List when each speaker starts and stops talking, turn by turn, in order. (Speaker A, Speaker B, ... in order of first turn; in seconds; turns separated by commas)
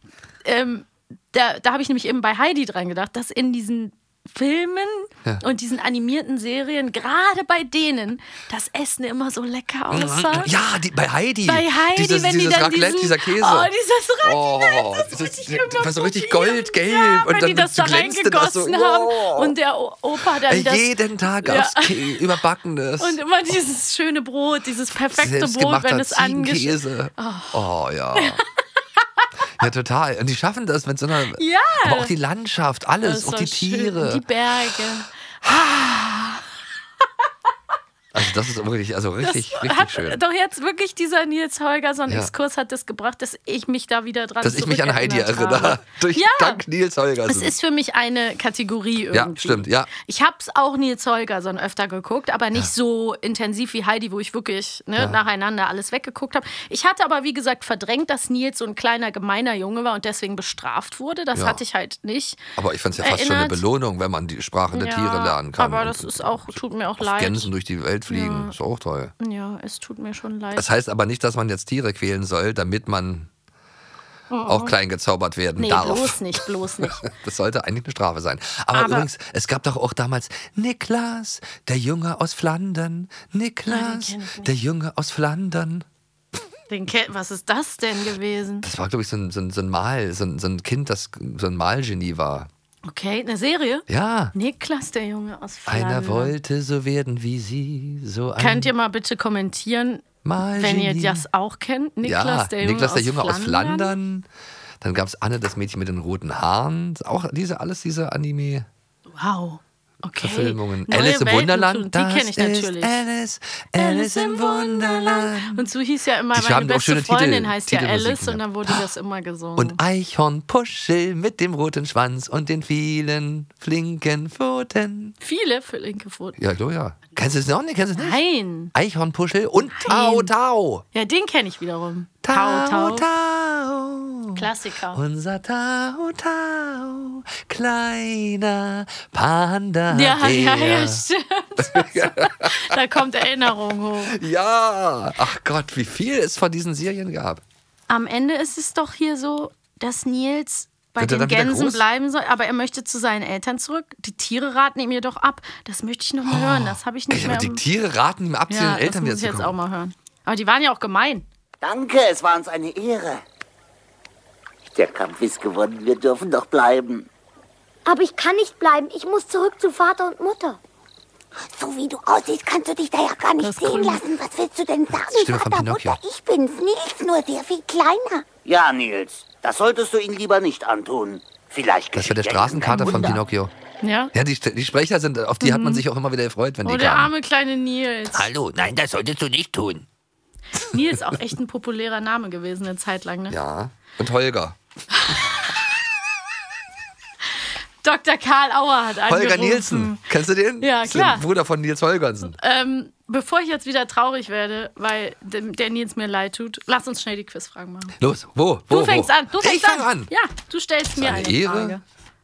Speaker A: 0.4-10.5, Speaker B: 9.9-13.7, Speaker A: 11.4-22.2, Speaker B: 14.2-19.5, Speaker B: 20.4-23.2, Speaker A: 23.0-28.4, Speaker B: 25.1-28.4, Speaker A: 29.0-29.3, Speaker B: 29.6-34.2, Speaker A: 31.4-32.1, Speaker A: 33.0-36.5, Speaker B: 35.4-35.7, Speaker B: 38.1-40.2, Speaker A: 39.2-46.6, Speaker B: 44.4-47.5, Speaker A: 47.3-62.4, Speaker B: 49.1-49.9, Speaker B: 61.3-61.6, Speaker B: 62.6-69.1, Speaker A: 63.0-63.6, Speaker A: 64.7-67.5, Speaker A: 68.1-68.5, Speaker A: 69.2-70.7, Speaker B: 70.5-73.3, Speaker A: 74.3-74.7, Speaker B: 74.5-85.8, Speaker A: 75.6-77.0, Speaker A: 78.7-79.1, Speaker A: 83.7-84.5, Speaker A: 86.7-88.7, Speaker B: 88.6-92.5, Speaker A: 92.8-96.3, Speaker B: 93.9-94.3, Speaker B: 95.7-98.7, Speaker A: 98.4-103.9, Speaker B: 100.2-101.2, Speaker B: 102.0-104.3, Speaker B: 104.8-108.7, Speaker A: 109.1-113.0, Speaker B: 110.2-115.7, Speaker A: 113.7-119.8, Speaker B: 116.3-118.9, Speaker B: 119.6-125.1, Speaker A: 125.2-126.4, Speaker B: 126.4-128.2, Speaker A: 128.0-128.7, Speaker B: 128.7-130.8, Speaker A: 129.7-130.3, Speaker A: 130.9-133.1, Speaker B: 132.2-141.0, Speaker A: 134.3-135.0, Speaker A: 139.9-144.2, Speaker B: 141.6-143.5, Speaker B: 144.0-147.4, Speaker A: 147.9-157.6, Speaker B: 151.0-151.8, Speaker B: 156.2-159.5, Speaker A: 158.5-161.2, Speaker C: 161.6-163.2, Speaker C: 164.7-167.1, Speaker D: 167.8-170.6, Speaker E: 171.5-178.2, Speaker A: 173.4-174.0, Speaker B: 175.0-176.0, Speaker C: 178.4-183.2, Speaker B: 181.9-183.5, Speaker A: 183.8-184.1, Speaker B: 184.1-187.1, Speaker A: 185.4-185.8, Speaker A: 186.6-188.3, Speaker B: 188.1-189.4, Speaker C: 188.6-189.8, Speaker A: 190.6-193.3, Speaker B: 193.3-194.6, Speaker A: 194.9-195.3, Speaker A: 197.8-200.0, Speaker B: 199.1-202.3, Speaker A: 200.6-201.2, Speaker A: 202.2-207.9, Speaker B: 208.0-210.1, Speaker A: 208.7-211.8, Speaker B: 210.9-211.8